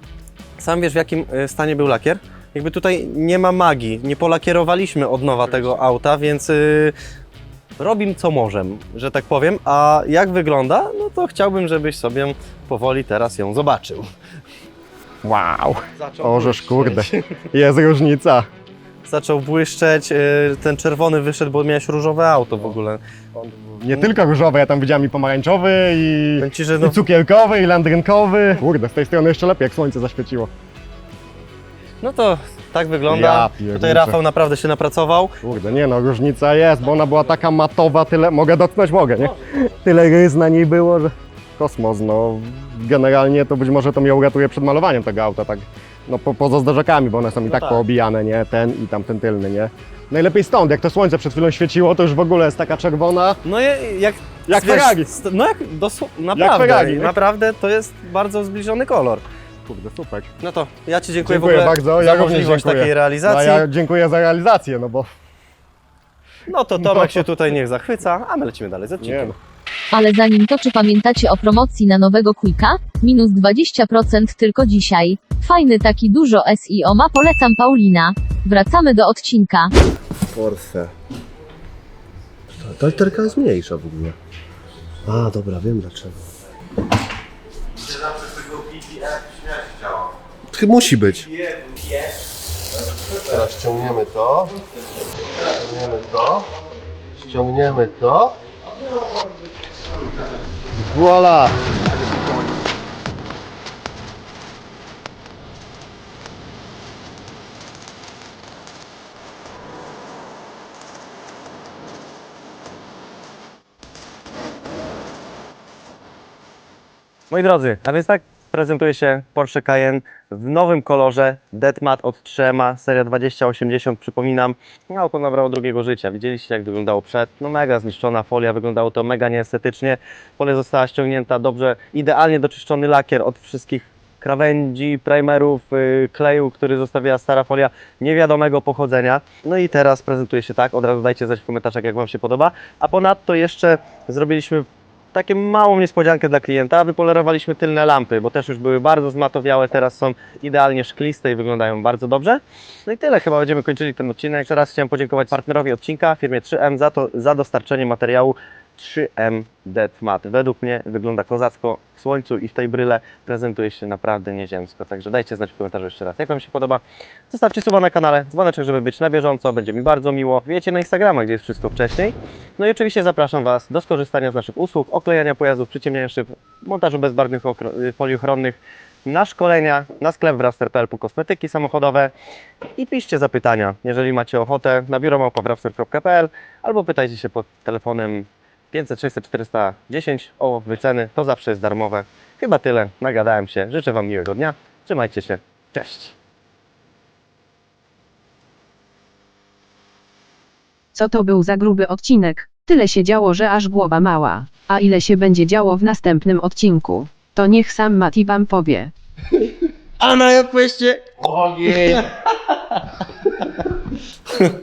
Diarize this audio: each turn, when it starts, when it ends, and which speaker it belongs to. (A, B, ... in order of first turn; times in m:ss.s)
0:00.6-0:06.9 A
0:07.8-0:14.1 A
0:15.2-0:18.4 B
0:16.0-0:17.4 A
0:19.0-0:23.0 A
0:23.3-0:30.5 B
0:26.4-0:27.0 A
0:32.0-0:35.3 A
0:33.1-0:34.2 B
0:35.4-0:53.4 B
0:47.4-0:47.8 A
0:53.4-0:59.2 A
0:54.5-0:55.1 B
0:56.3-0:57.2 B
0:59.6-1:00.3 B
1:00.4-1:03.6 A
1:01.2-1:05.1 B
1:06.5-1:09.3 A
1:06.8-1:07.2 B
1:09.0-1:09.3 B
1:09.9-1:19.7 C
1:20.3-1:20.9 D
1:22.6-1:24.1 D
1:25.0-1:26.2 D
1:27.9-1:30.1 A
1:30.5-1:31.3 D
1:33.2-1:34.5 D
1:35.5-1:36.4 D
1:37.2-1:38.3 D
1:40.9-1:41.5 D
1:57.3-3:02.1 A
3:02.8-3:16.1 A
3:20.9-3:28.9 E
3:30.0-3:32.0 A